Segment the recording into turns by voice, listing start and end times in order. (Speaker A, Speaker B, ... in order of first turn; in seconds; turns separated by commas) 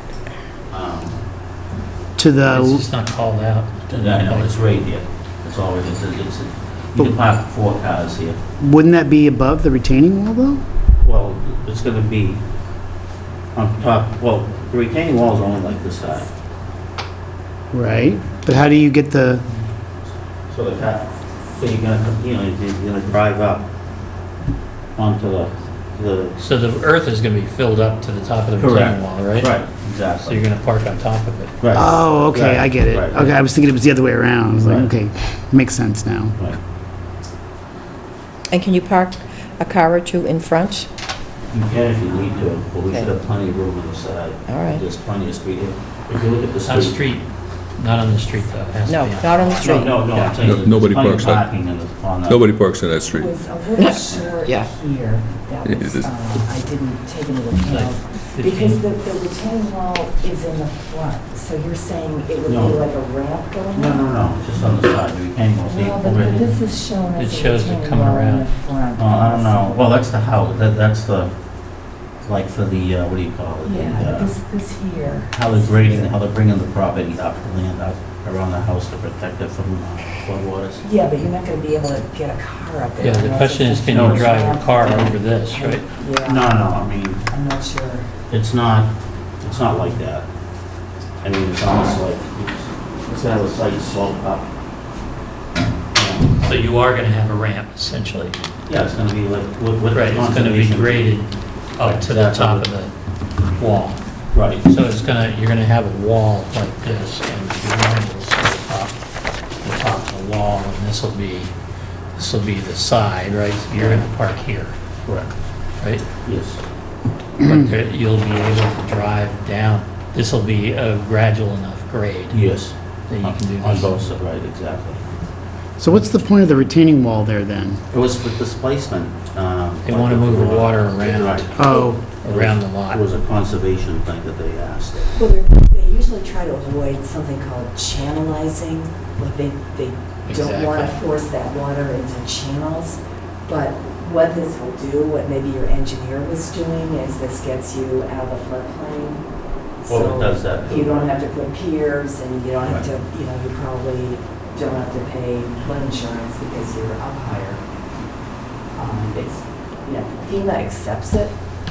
Speaker A: 0.7-1.2, Speaker B: 2.2-2.8, Speaker C: 2.5-4.5, Speaker A: 3.9-8.4, Speaker B: 8.6-10.6, Speaker A: 11.0-12.4, Speaker A: 13.5-16.3, Speaker B: 17.7-19.4, Speaker A: 20.5-23.7, Speaker A: 24.9-26.4, Speaker C: 26.4-29.7, Speaker A: 28.6-30.4, Speaker C: 30.2-31.5, Speaker A: 31.6-33.4, Speaker B: 31.7-36.4, Speaker A: 34.6-34.9, Speaker D: 38.5-40.9, Speaker A: 41.5-47.1, Speaker D: 44.5-44.8, Speaker C: 46.6-50.5, Speaker D: 48.9-50.0, Speaker A: 49.6-52.5, Speaker E: 50.4-51.5, Speaker E: 52.2-53.4, Speaker F: 53.1-64.0, Speaker D: 53.8-54.7, Speaker E: 55.6-56.1, Speaker C: 57.6-58.8, Speaker A: 62.5-62.8, Speaker A: 63.7-66.5, Speaker F: 65.7-69.9, Speaker C: 67.1-68.5, Speaker A: 69.0-71.3, Speaker A: 72.2-74.3, Speaker F: 73.6-76.1, Speaker A: 75.3-80.8, Speaker F: 80.8-86.8, Speaker C: 83.0-85.8, Speaker A: 83.9-84.4, Speaker A: 86.2-87.2, Speaker F: 87.3-88.1, Speaker A: 88.3-90.2, Speaker A: 91.2-94.5, Speaker A: 95.9-96.3, Speaker C: 96.4-98.4, Speaker A: 98.7-101.1, Speaker C: 99.9-102.9, Speaker A: 101.8-102.7, Speaker C: 103.6-104.0, Speaker A: 104.3-104.6, Speaker C: 104.5-109.0, Speaker C: 109.6-111.5, Speaker C: 112.2-114.7, Speaker A: 113.7-114.1, Speaker A: 116.2-116.6, Speaker C: 117.4-122.5, Speaker A: 122.3-125.0, Speaker C: 123.1-124.0, Speaker B: 125.8-127.8, Speaker A: 127.9-135.2, Speaker C: 129.8-133.0, Speaker B: 131.6-132.0, Speaker F: 131.6-131.9, Speaker F: 135.1-149.2, Speaker C: 140.3-140.9, Speaker F: 149.8-157.6, Speaker A: 149.9-151.1, Speaker F: 158.7-161.3